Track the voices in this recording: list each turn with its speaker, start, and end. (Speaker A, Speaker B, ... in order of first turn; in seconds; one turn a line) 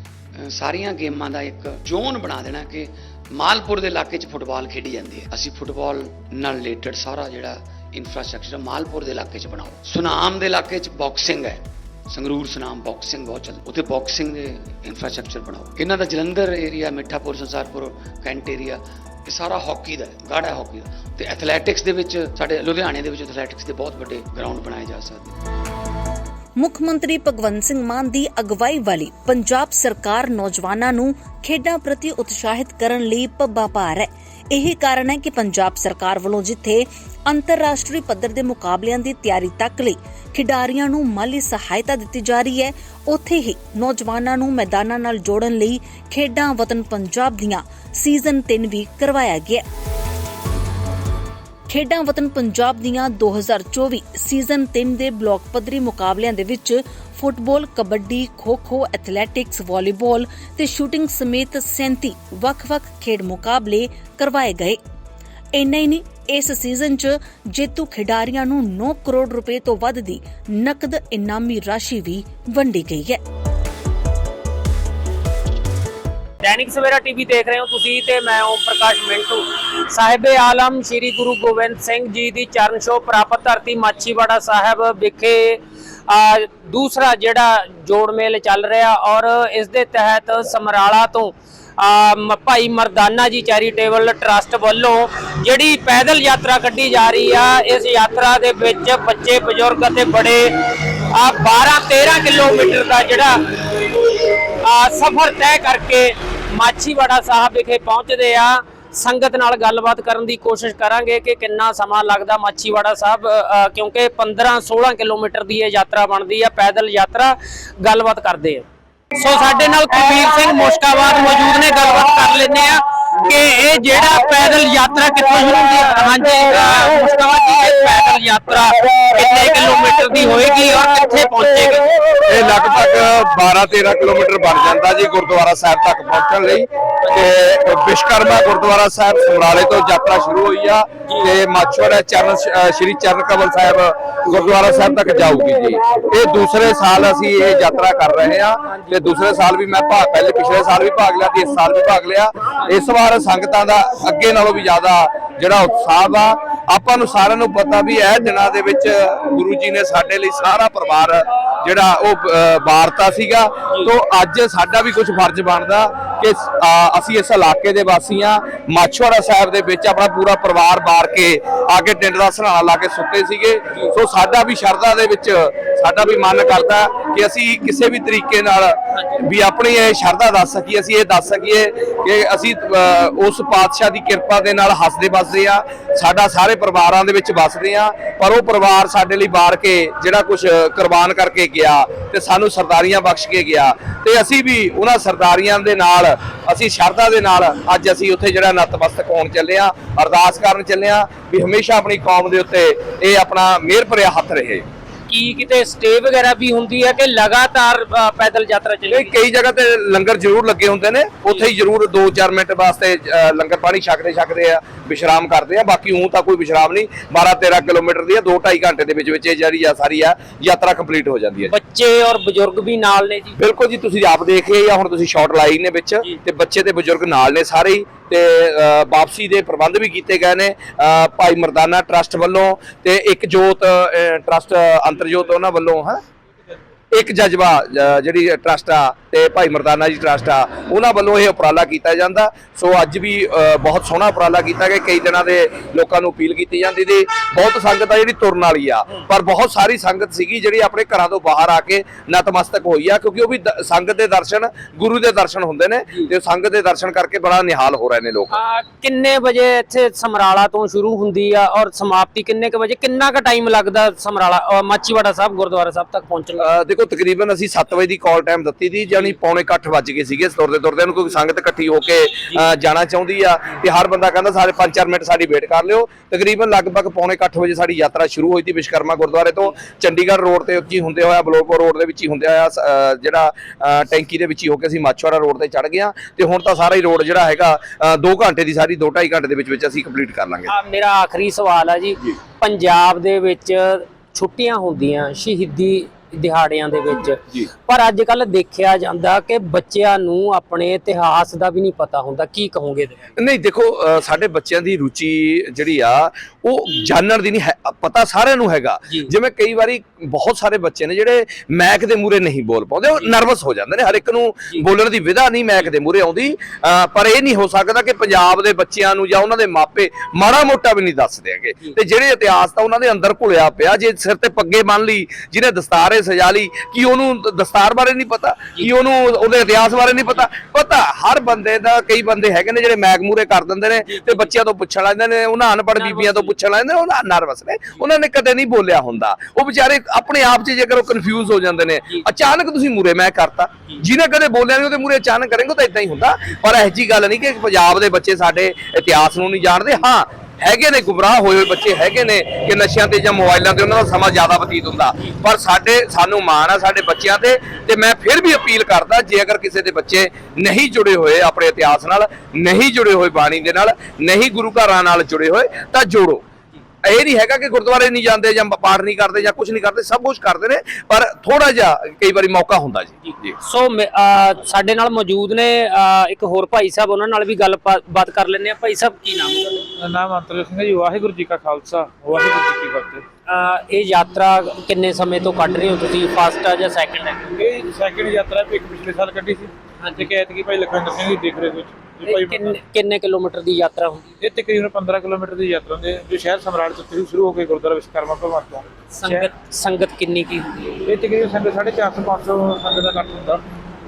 Speaker A: 0.4-25.3
Speaker B: 26.6-49.6
Speaker B: 51.7-64.8
Speaker B: 65.6-73.2
Speaker C: 76.4-131.9
Speaker D: 132.3-204.6
Speaker C: 148.7-149.1
Speaker C: 205.1-209.2
Speaker D: 208.9-221.5
Speaker C: 221.4-223.4
Speaker D: 223.4-236.0
Speaker D: 236.9-258.4
Speaker C: 258.3-266.5
Speaker D: 266.4-290.5
Speaker C: 290.5-303.1
Speaker D: 303.2-366.2
Speaker C: 333.8-334.3
Speaker C: 335.7-336.4
Speaker D: 366.8-373.3
Speaker C: 373.0-379.7
Speaker E: 379.8-383.0
Speaker C: 383.3-387.3
Speaker E: 387.3-392.6
Speaker C: 389.8-390.1
Speaker C: 392.0-394.1
Speaker E: 394.2-399.3
Speaker C: 398.9-400.8
Speaker E: 400.8-403.4